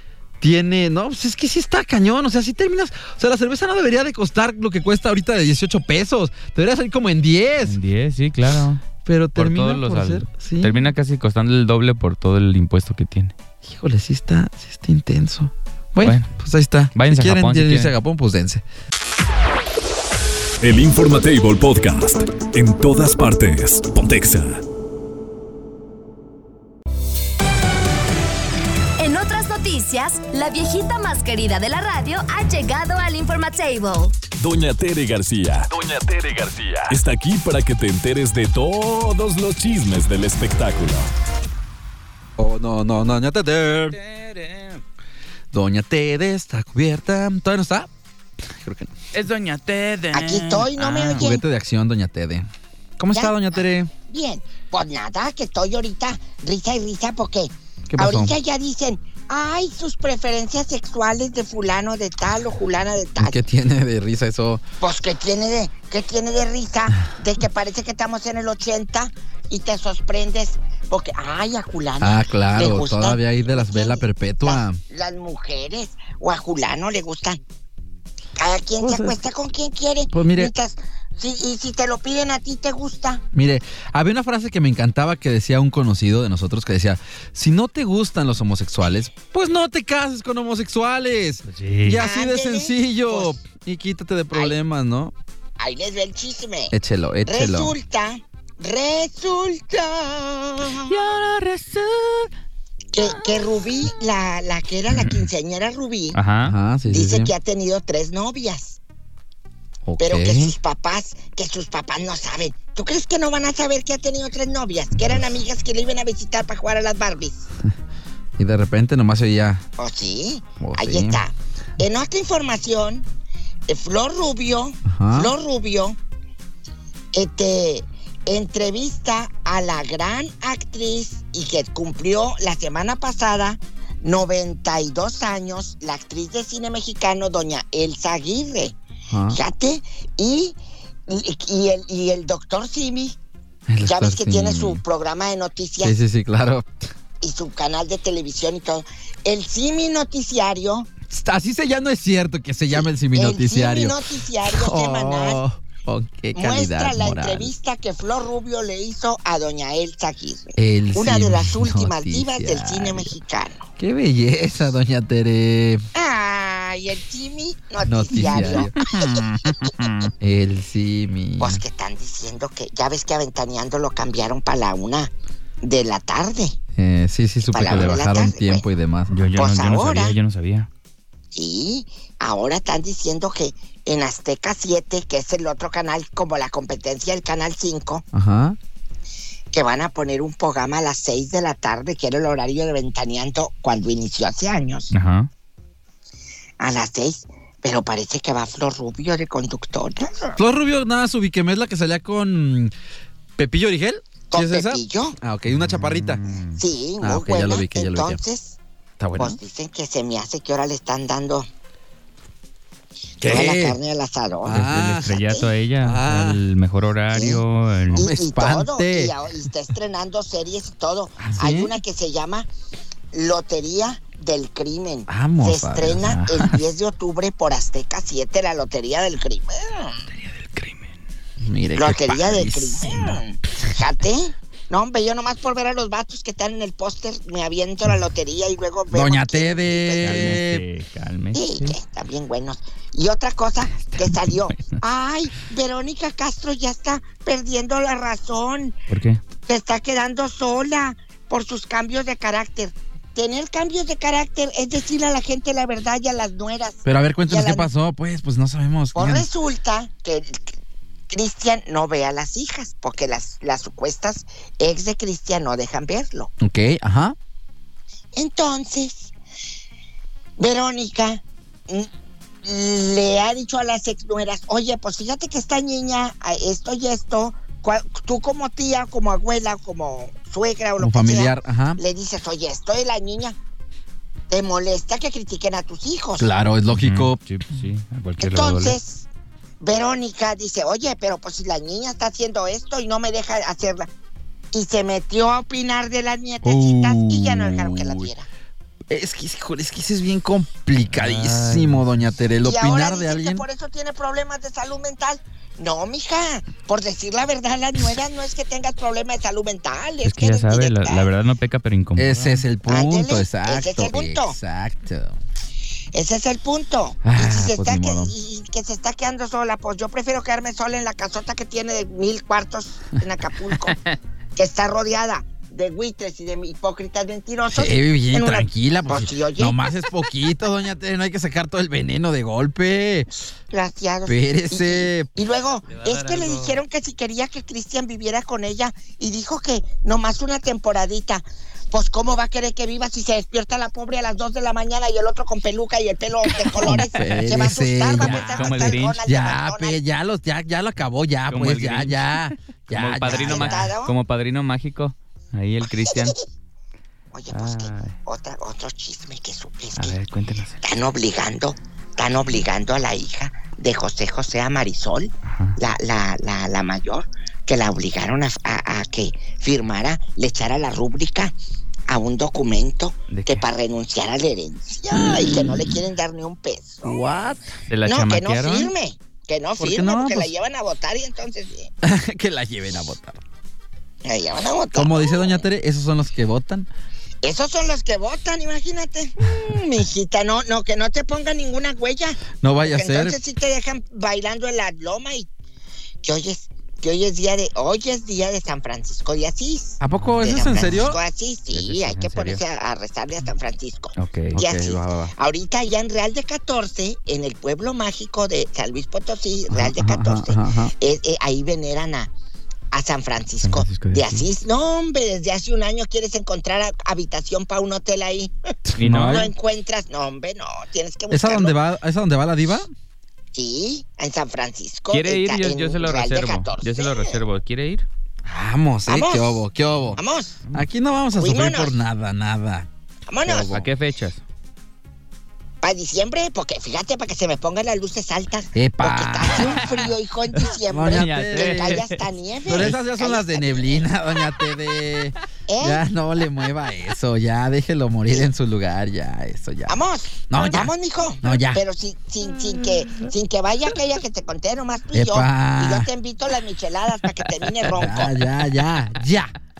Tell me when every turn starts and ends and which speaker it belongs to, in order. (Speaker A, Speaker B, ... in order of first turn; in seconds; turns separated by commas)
Speaker A: 0.4-7.8, Speaker B: 7.6-8.8, Speaker A: 9.1-10.9, Speaker B: 9.4-13.3, Speaker A: 13.6-18.6, Speaker B: 16.0-16.3, Speaker B: 16.9-17.9, Speaker C: 20.6-24.6, Speaker D: 29.0-34.2, Speaker C: 34.4-41.1, Speaker A: 42.4-44.0, Speaker B: 43.9-44.8, Speaker A: 45.5-47.9, Speaker A: 48.5-48.9, Speaker B: 49.1-51.2, Speaker E: 50.1-51.4, Speaker A: 51.1-53.9, Speaker E: 53.1-53.4, Speaker E: 54.1-63.4, Speaker A: 57.9-58.3, Speaker A: 63.2-64.6, Speaker E: 64.8-77.4, Speaker A: 72.0-74.8, Speaker E: 78.4-83.2, Speaker A: 78.8-79.2, Speaker A: 80.1-80.5, Speaker A: 83.3-95.1, Speaker B: 91.5-92.0, Speaker E: 92.0-93.4, Speaker E: 95.6-96.7, Speaker A: 96.7-97.7, Speaker E: 97.2-101.0, Speaker B: 100.7-102.3, Speaker E: 102.9-106.2, Speaker B: 106.1-106.5, Speaker A: 106.4-107.3, Speaker E: 106.9-108.8, Speaker A: 109.9-110.5, Speaker E: 110.0-117.5, Speaker A: 118.4-119.6, Speaker E: 119.8-123.1, Speaker A: 120.6-121.2, Speaker E: 123.7-126.0, Speaker A: 124.9-125.3, Speaker E: 127.1-138.8, Speaker A: 139.1-139.4, Speaker E: 139.3-140.6, Speaker E: 141.1-143.2, Speaker A: 143.7-144.8, Speaker E: 143.8-146.0, Speaker A: 145.8-146.7, Speaker E: 147.2-150.9, Speaker A: 151.1-157.5, Speaker E: 152.7-155.4, Speaker E: 156.3-163.7, Speaker A: 160.6-163.1, Speaker A: 163.8-165.8, Speaker E: 165.9-170.1, Speaker A: 167.8-171.6, Speaker E: 171.4-176.6, Speaker A: 176.8-179.1, Speaker E: 177.5-178.7, Speaker B: 177.6-177.9, Speaker B: 179.1-180.7, Speaker E: 179.3-180.2, Speaker E: 181.3-188.1, Speaker A: 188.1-188.6, Speaker E: 189.5-194.9, Speaker B: 194.9-195.3, Speaker E: 196.6-200.4, Speaker A: 200.4-202.7, Speaker A: 203.4-206.2, Speaker E: 204.3-205.2, Speaker B: 205.5-206.6, Speaker E: 206.6-208.6, Speaker A: 207.0-208.2, Speaker A: 209.0-209.4, Speaker E: 209.2-211.5, Speaker A: 213.2-213.8, Speaker E: 213.2-215.5, Speaker A: 214.4-215.2, Speaker B: 214.9-218.1, Speaker A: 215.8-216.4, Speaker E: 217.1-217.4, Speaker A: 217.9-219.1, Speaker E: 217.9-222.5, Speaker A: 221.2-221.8, Speaker E: 223.1-230.0, Speaker A: 225.1-226.2, Speaker B: 226.0-226.6, Speaker B: 230.1-231.0, Speaker A: 231.4-233.2, Speaker E: 231.8-240.4, Speaker A: 238.9-240.6, Speaker B: 240.0-241.8, Speaker E: 241.3-248.8, Speaker B: 244.1-244.6, Speaker B: 248.9-249.2, Speaker E: 249.5-257.7, Speaker A: 256.9-259.3, Speaker E: 258.9-260.5, Speaker E: 261.1-266.3, Speaker A: 266.4-267.2, Speaker E: 268.1-269.1, Speaker E: 270.4-271.9, Speaker E: 272.4-283.4, Speaker A: 280.8-281.8, Speaker E: 284.3-286.3, Speaker A: 286.2-287.2, Speaker B: 286.7-288.8, Speaker E: 288.2-289.1, Speaker E: 289.6-293.9, Speaker E: 294.5-298.3, Speaker A: 296.4-298.1, Speaker A: 298.9-303.4, Speaker B: 300.9-301.9, Speaker E: 302.4-311.1, Speaker B: 310.0-312.4, Speaker A: 312.0-315.2, Speaker E: 312.7-314.4, Speaker E: 315.9-323.8, Speaker A: 317.1-318.1, Speaker E: 324.4-329.6, Speaker A: 327.5-333.1, Speaker E: 333.5-349.8, Speaker A: 334.1-335.1, Speaker B: 335.7-336.6, Speaker B: 346.6-347.2, Speaker A: 346.6-353.7, Speaker B: 348.0-349.0, Speaker B: 351.3-356.2, Speaker E: 353.1-353.9, Speaker E: 355.7-356.2, Speaker E: 357.1-360.0, Speaker B: 357.3-357.9, Speaker B: 359.8-360.6, Speaker E: 360.6-371.3, Speaker B: 365.2-365.6, Speaker E: 371.9-377.0, Speaker B: 373.1-373.4, Speaker A: 374.9-375.5, Speaker A: 376.8-377.4, Speaker B: 377.7-378.7, Speaker E: 377.9-381.7, Speaker A: 379.6-380.3, Speaker A: 381.8-383.2, Speaker E: 384.1-385.4, Speaker A: 384.7-386.7, Speaker E: 387.2-395.3, Speaker A: 392.4-393.2, Speaker E: 396.0-412.1, Speaker A: 399.8-401.0, Speaker B: 401.5-402.4, Speaker B: 404.0-404.4, Speaker A: 404.3-405.1, Speaker A: 409.5-410.7, Speaker E: 412.7-418.3, Speaker B: 413.4-414.3, Speaker A: 418.8-419.3, Speaker B: 418.8-419.3, Speaker E: 419.0-421.6, Speaker A: 421.1-422.7, Speaker E: 423.3-427.2, Speaker B: 424.9-427.9, Speaker A: 428.3-430.0, Speaker E: 428.9-429.4, Speaker E: 430.0-430.4, Speaker A: 430.5-432.7, Speaker E: 431.2-431.8, Speaker E: 433.1-433.5, Speaker B: 433.2-434.2, Speaker E: 435.6-443.9, Speaker A: 438.6-439.7, Speaker B: 439.6-442.0, Speaker A: 440.7-441.8, Speaker A: 442.5-449.8, Speaker E: 445.5-445.8, Speaker E: 449.7-458.2, Speaker A: 450.3-451.6, Speaker A: 454.9-455.9, Speaker A: 457.8-459.3